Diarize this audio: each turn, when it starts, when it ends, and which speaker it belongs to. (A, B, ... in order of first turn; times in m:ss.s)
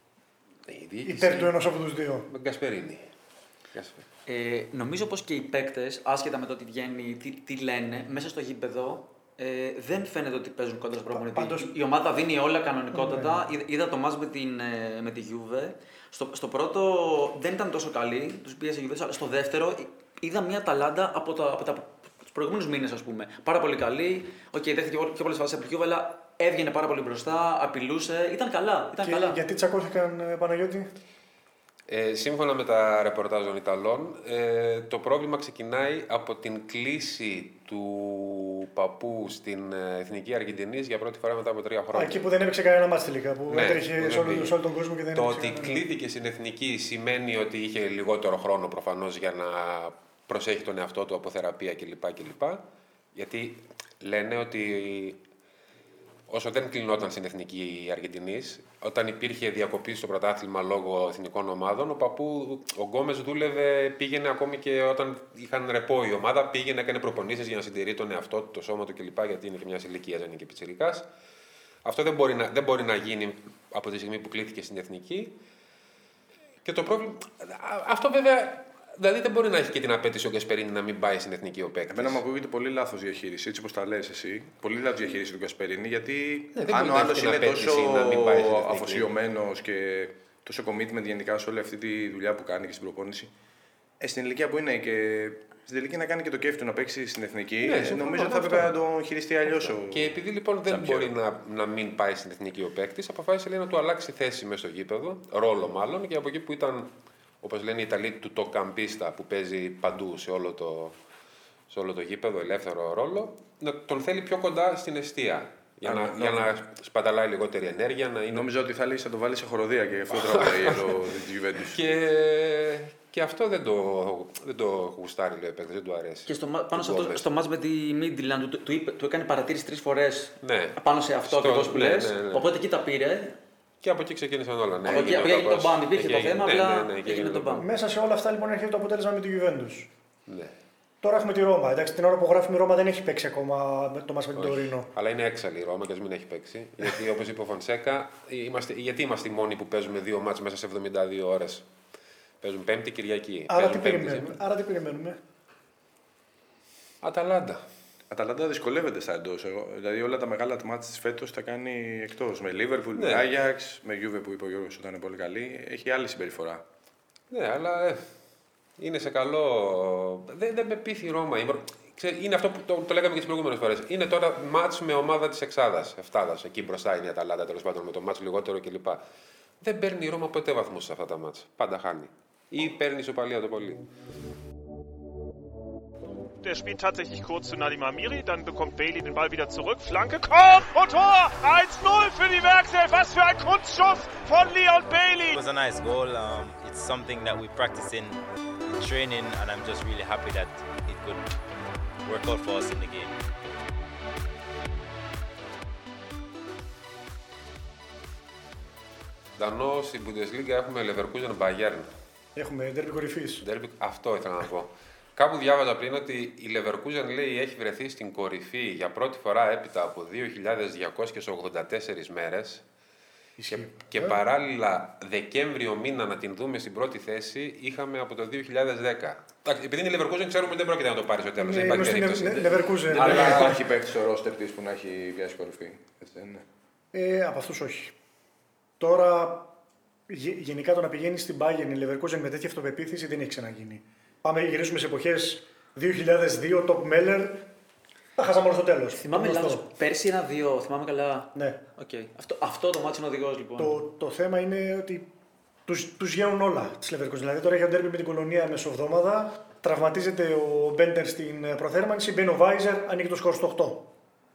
0:00.7-0:01.5 A
0:01.0-0:02.3 B
0:02.3-0:03.1 A
0:03.7-0:04.0 A
0:04.3-0:29.4 C
0:11.1-0:11.7 B
0:12.9-0:13.4 B
0:28.9-0:30.9 B
0:31.9-0:42.2 A
0:41.9-0:45.8 B
0:43.5-0:44.6 A
0:45.1-0:55.2 A
0:56.3-1:11.1 A
1:11.8-1:15.4 A
1:16.6-1:22.2 A
1:21.9-1:33.3 D
1:26.6-1:29.1 A
1:34.0-1:40.1 D
1:37.6-1:38.7 A
1:39.4-1:51.0 A
1:40.7-1:41.1 D
1:51.7-1:58.5 A
1:55.8-1:56.6 D
1:58.3-2:01.9 D
2:00.1-2:00.9 A
2:01.7-2:07.2 A
2:06.3-2:13.4 C
2:10.4-2:12.5 A
2:13.8-2:17.7 A
2:14.9-2:17.7 C
2:17.6-2:19.9 B
2:20.3-2:20.5 A
2:21.0-2:24.9 B
2:24.4-2:31.7 A
2:32.4-2:34.4 A
2:33.5-2:35.2 B
2:37.0-2:37.6 A
2:38.1-2:46.6 D
2:42.9-2:43.3 A
2:47.3-2:48.1 A
2:48.8-2:59.0 A
2:59.6-3:03.9 A
3:06.4-3:15.4 E
3:15.3-3:21.3 F
3:22.0-3:23.2 F
3:29.4-3:31.9 A
3:32.4-3:33.4 B
3:33.4-3:42.6 A
3:43.4-3:44.2 B
3:43.5-3:53.6 A
3:51.4-3:53.6 B
3:52.9-3:56.4 D
3:56.9-3:57.9 B
3:58.8-3:59.5 B
4:00.1-4:07.5 B
4:08.2-4:09.6 B
4:08.9-4:13.8 C
4:13.6-4:15.1 B
4:15.6-4:23.9 B